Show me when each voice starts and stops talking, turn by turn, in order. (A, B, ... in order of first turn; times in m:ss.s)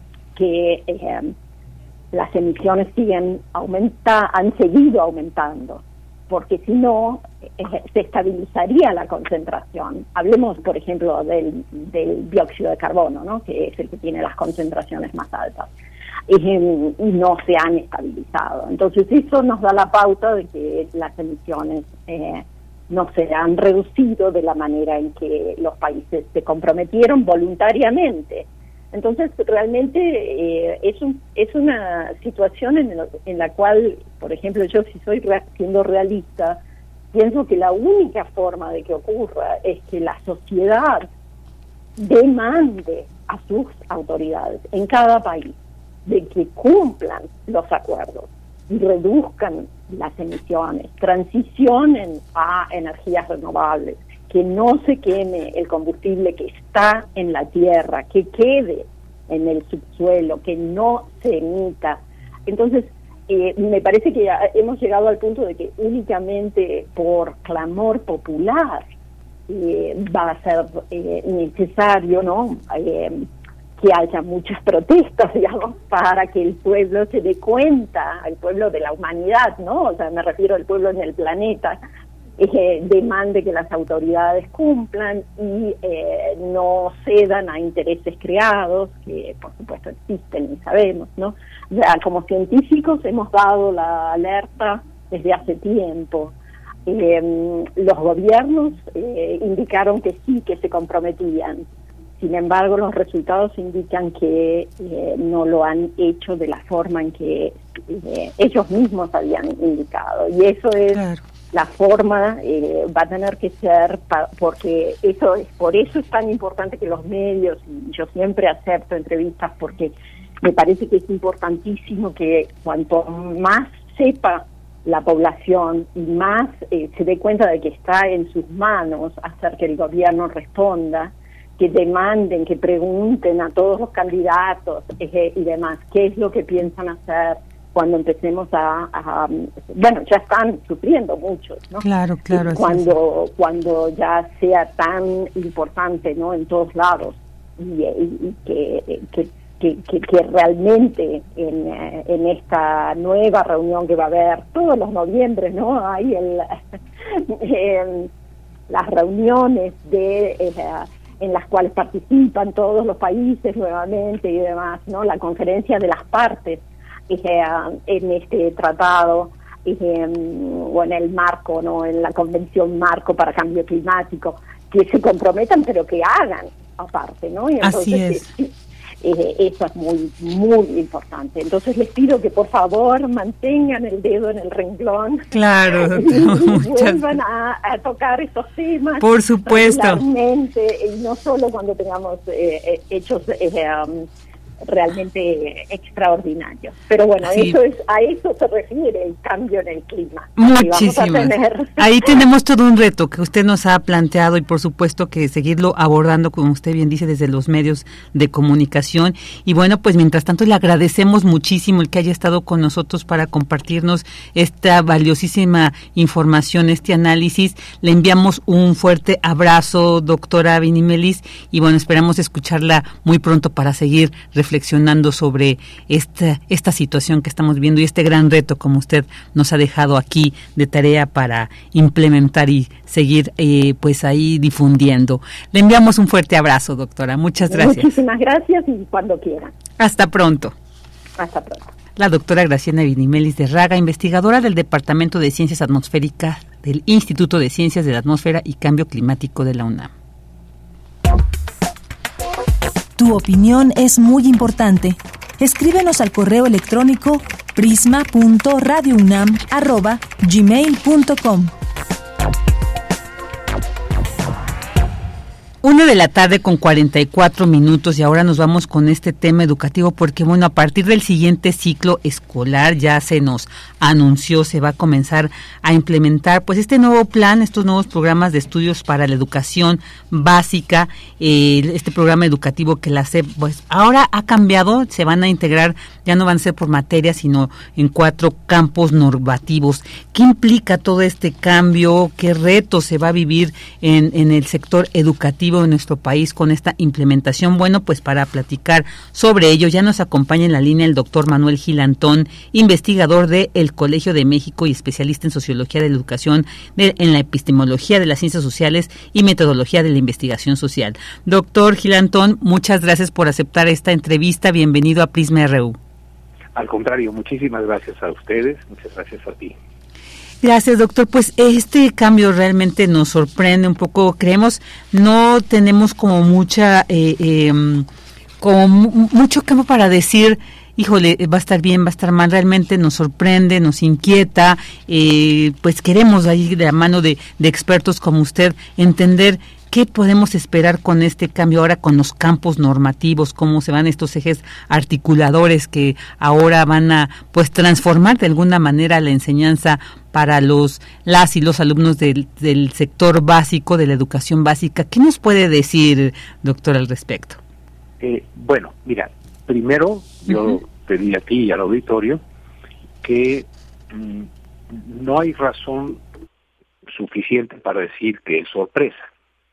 0:00.4-0:01.3 A
0:02.1-0:15.7 A
0:16.3-0:36.6 A
0:37.1-0:41.1 A
0:42.0-1:08.9 A
1:09.5-1:13.3 A
1:13.8-1:21.8 A
1:22.4-1:36.4 A
1:36.9-1:41.7 A
1:42.2-1:51.0 A
1:50.9-1:51.2 B
1:51.5-2:36.6 A
2:21.8-2:22.9 B
2:37.1-2:38.1 A
2:38.7-3:05.3 A
2:57.6-2:58.2 B
3:05.3-3:07.0 B
3:05.8-3:14.1 A
3:09.0-3:10.0 B
3:14.6-3:21.8 A
3:17.2-3:17.6 B
3:20.4-3:57.9 B
3:57.5-3:59.6 A
3:59.8-4:00.5 B
4:01.2-4:01.7 A
4:02.0-4:09.9 B
4:13.0-4:21.5 C
4:25.6-5:15.8 B
5:16.6-5:19.6 D
5:20.4-5:27.9 B
5:28.4-5:57.4 B
5:58.0-6:02.2 D
6:03.0-6:06.0 D
6:06.9-6:09.1 D